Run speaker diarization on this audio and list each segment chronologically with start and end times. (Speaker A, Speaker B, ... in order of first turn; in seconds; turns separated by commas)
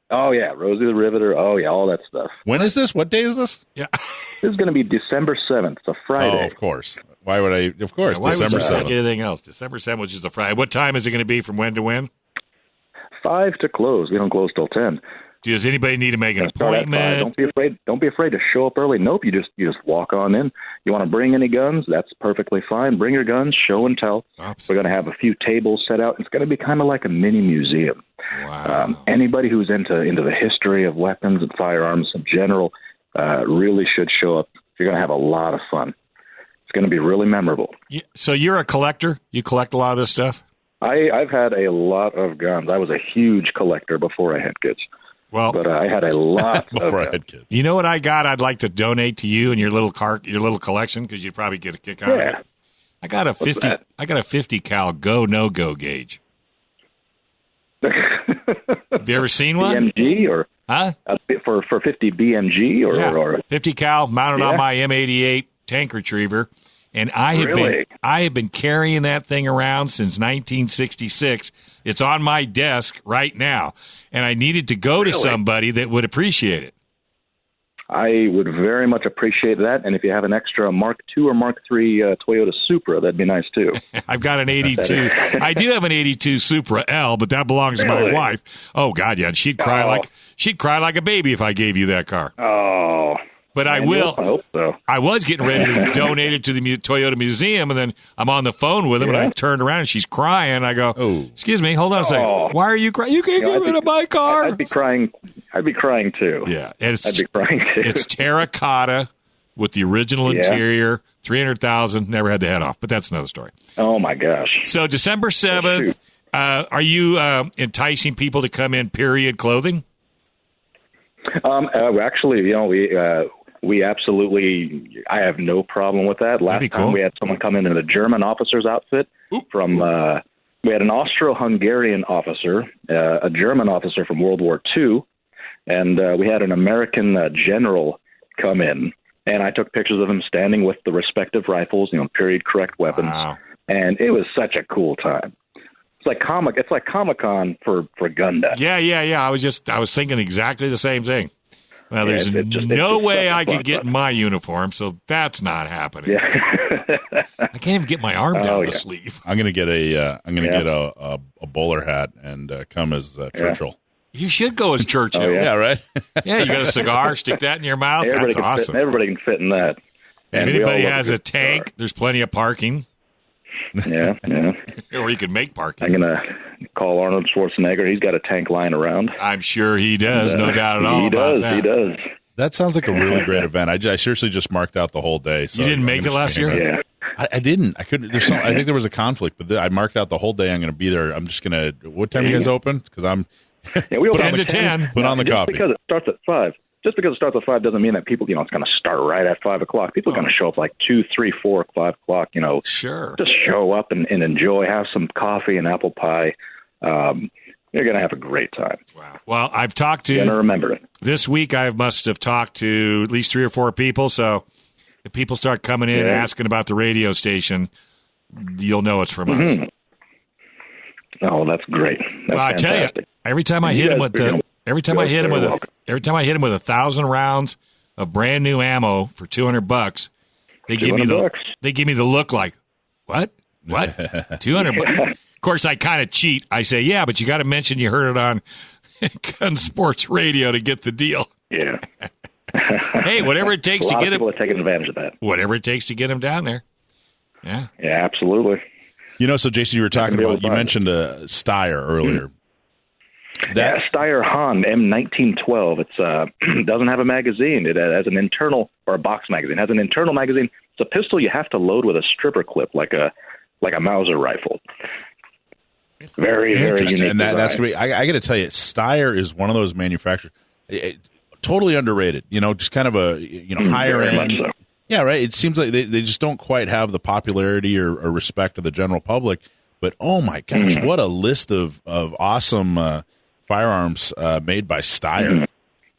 Speaker A: 0.1-2.4, Speaker B: 2.5-3.6, Speaker A: 4.4-6.5, Speaker B: 6.2-8.9, Speaker C: 8.1-12.1, Speaker A: 8.4-8.9, Speaker A: 13.2-15.0, Speaker C: 15.4-17.3, Speaker A: 16.4-28.0, Speaker C: 24.4-24.7, Speaker C: 28.3-29.0, Speaker A: 28.6-36.0, Speaker A: 36.7-37.7, Speaker C: 37.9-40.4, Speaker A: 40.8-44.8, Speaker C: 45.3-45.6, Speaker A: 45.5-47.2, Speaker B: 46.6-47.5, Speaker C: 47.5-52.4, Speaker A: 52.1-52.4, Speaker C: 53.0-56.2, Speaker A: 53.5-53.7, Speaker A: 57.8-59.0, Speaker C: 59.0-59.9, Speaker A: 59.5-60.5, Speaker C: 60.7-61.0, Speaker A: 61.1-63.4, Speaker C: 62.9-76.7, Speaker A: 64.4-64.6, Speaker A: 67.3-67.9, Speaker A: 75.0-75.4, Speaker A: 77.9-83.8, Speaker C: 83.9-92.3, Speaker A: 84.8-85.5, Speaker A: 87.8-88.3, Speaker A: 89.6-90.0, Speaker A: 92.4-94.8, Speaker C: 93.5-94.2, Speaker C: 94.9-104.7, Speaker A: 95.5-96.1, Speaker A: 99.0-99.3, Speaker B: 101.0-101.3, Speaker A: 102.0-102.6, Speaker A: 103.4-106.5, Speaker C: 106.5-107.2, Speaker A: 107.0-108.1, Speaker C: 107.8-113.5, Speaker A: 110.3-110.6, Speaker A: 113.8-114.7, Speaker C: 114.6-119.8, Speaker A: 115.5-115.9, Speaker A: 121.3-135.1, Speaker C: 126.5-127.0, Speaker A: 135.7-145.3, Speaker C: 142.9-143.4, Speaker A: 146.0-148.6, Speaker C: 148.5-151.3, Speaker C: 151.9-156.2, Speaker A: 152.0-153.9, Speaker A: 156.1-157.5, Speaker C: 157.5-159.2, Speaker A: 158.3-158.8, Speaker B: 159.2-163.8, Speaker A: 160.4-160.7, Speaker C: 164.1-165.5, Speaker A: 165.1-165.5, Speaker B: 165.3-166.8, Speaker C: 166.2-168.8, Speaker A: 168.0-169.8, Speaker A: 170.3-171.7, Speaker C: 170.3-172.8, Speaker A: 173.8-174.6, Speaker C: 174.8-176.0, Speaker A: 175.8-179.2, Speaker C: 179.2-181.7, Speaker A: 180.1-182.0, Speaker B: 182.4-195.6, Speaker C: 185.5-186.6, Speaker A: 186.5-186.8, Speaker A: 192.2-192.5, Speaker A: 193.9-202.7, Speaker C: 194.1-194.9, Speaker C: 202.7-203.2, Speaker A: 203.2-208.8, Speaker C: 209.0-210.4, Speaker A: 210.1-210.8, Speaker C: 211.0-214.4, Speaker C: 215.1-217.7, Speaker A: 215.9-216.3, Speaker C: 218.3-219.6, Speaker A: 219.3-219.7, Speaker A: 221.2-223.1, Speaker C: 222.3-230.1, Speaker A: 223.6-225.6, Speaker C: 230.7-232.6, Speaker A: 230.8-231.5, Speaker C: 233.1-238.4, Speaker B: 233.7-234.3, Speaker C: 239.0-241.3, Speaker A: 241.5-241.8, Speaker A: 242.5-243.1, Speaker C: 242.7-244.2, Speaker A: 243.7-245.2, Speaker C: 245.2-246.6, Speaker C: 247.4-247.7, Speaker A: 247.8-248.6, Speaker B: 249.2-252.3, Speaker A: 249.9-250.7, Speaker A: 253.5-264.6, Speaker B: 253.5-253.8, Speaker A: 266.2-267.6, Speaker B: 266.5-285.5, Speaker A: 273.6-274.5, Speaker A: 280.5-280.9